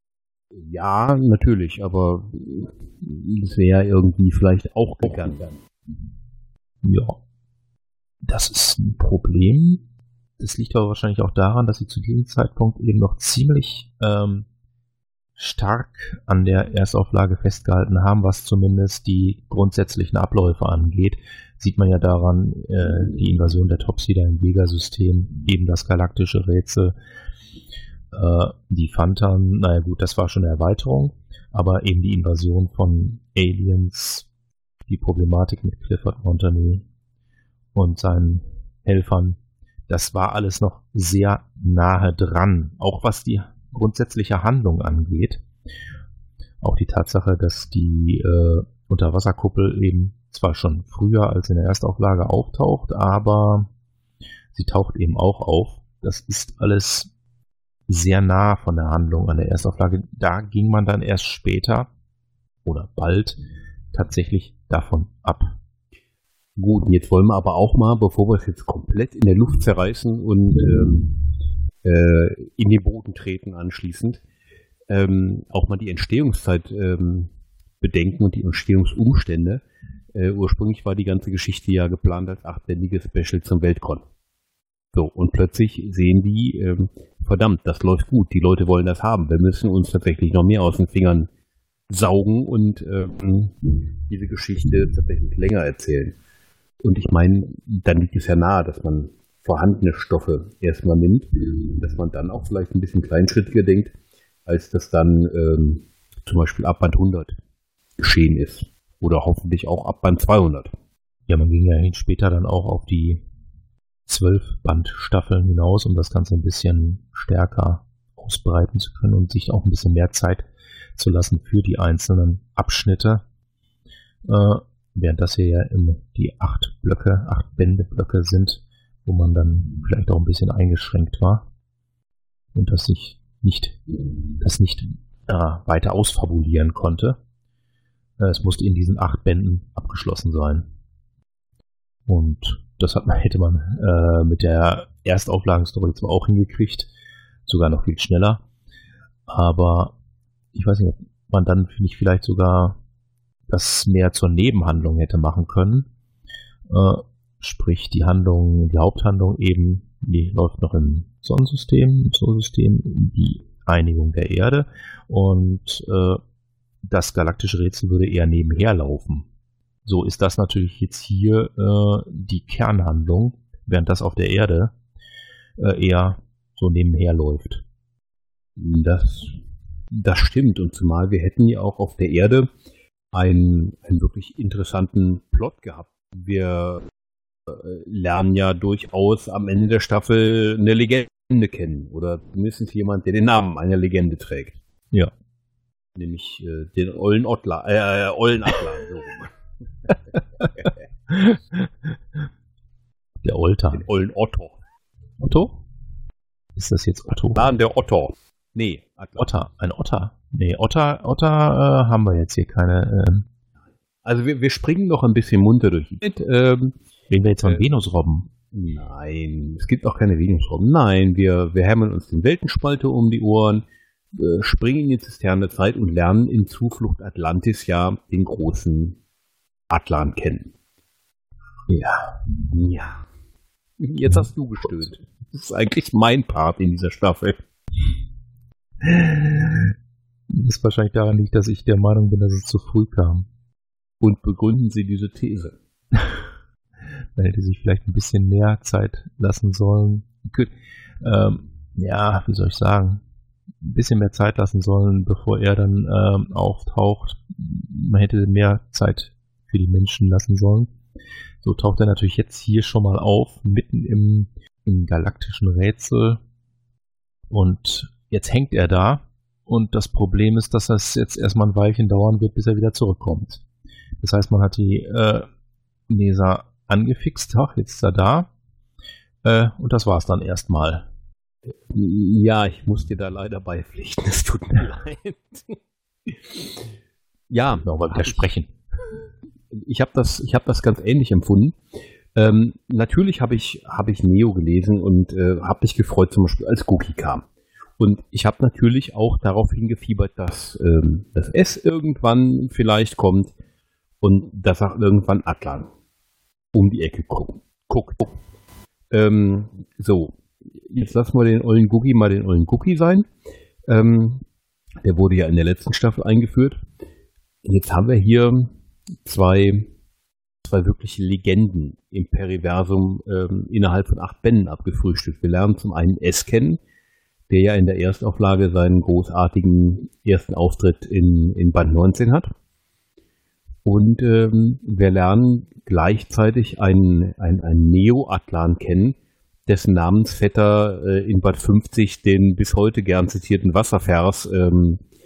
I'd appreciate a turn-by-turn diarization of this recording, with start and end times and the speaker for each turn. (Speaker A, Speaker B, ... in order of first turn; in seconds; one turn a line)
Speaker A: 0.5-5.6
Speaker B: 6.8-7.2
Speaker B: 8.2-9.8
Speaker B: 10.4-14.5
Speaker B: 15.3-26.9
Speaker B: 28.1-34.3
Speaker B: 34.9-36.9
Speaker B: 37.7-45.4
Speaker B: 46.6-53.7
Speaker B: 54.5-57.1
Speaker B: 57.9-61.9
Speaker B: 62.6-63.4
Speaker B: 63.9-65.5
Speaker A: 66.6-71.2
Speaker A: 71.8-74.2
Speaker A: 74.9-79.6
Speaker A: 80.1-84.0
Speaker A: 84.9-91.3
Speaker A: 91.9-96.2
Speaker A: 96.8-103.9
Speaker A: 104.5-107.4
Speaker A: 108.0-110.7
Speaker B: 111.3-113.2
Speaker B: 114.1-123.2
Speaker B: 124.2-131.5
Speaker B: 132.5-133.8
Speaker B: 134.4-137.2
Speaker B: 138.2-140.7
Speaker B: 142.1-146.9
Speaker B: 147.4-148.4
Speaker B: 149.3-149.9
Speaker B: 150.5-152.8
Speaker B: 153.5-155.9
Speaker B: 156.7-166.2
Speaker B: 166.8-169.3
Speaker B: 169.8-174.7
Speaker B: 175.6-177.6
Speaker A: 178.6-179.4
Speaker A: 179.9-182.5
Speaker A: 183.1-186.9
Speaker A: 187.5-194.6
Speaker A: 195.9-199.3
Speaker B: 203.2-203.9
Speaker A: 203.7-204.6
Speaker B: 205.2-205.6
Speaker B: 206.6-207.5
Speaker A: 207.3-209.3
Speaker B: 209.2-213.3
Speaker A: 214.0-216.8
Speaker B: 217.1-218.3
Speaker A: 218.5-229.0
Speaker A: 229.7-230.5
Speaker B: 231.7-232.2
Speaker A: 232.5-233.1
Speaker A: 233.8-237.4
Speaker B: 238.8-239.7
Speaker B: 240.3-243.3
Speaker A: 244.0-245.6
Speaker B: 245.9-246.2
Speaker B: 247.2-253.0
Speaker B: 253.6-260.7
Speaker B: 261.4-266.2
Speaker B: 267.3-273.4
Speaker B: 274.0-275.3
Speaker B: 275.9-278.3
Speaker B: 279.2-280.9
Speaker A: 281.7-286.6
Speaker A: 287.3-288.3
Speaker B: 287.6-288.5
Speaker A: 289.5-291.6
Speaker A: 292.1-297.2
Speaker A: 297.8-303.3
Speaker A: 304.0-305.7
Speaker A: 306.5-308.1
Speaker A: 308.9-313.1
Speaker A: 313.7-314.2
Speaker A: 314.8-316.6
Speaker A: 317.4-318.5
Speaker A: 319.0-319.7
Speaker A: 320.4-326.6
Speaker A: 327.3-332.3
Speaker A: 333.6-344.8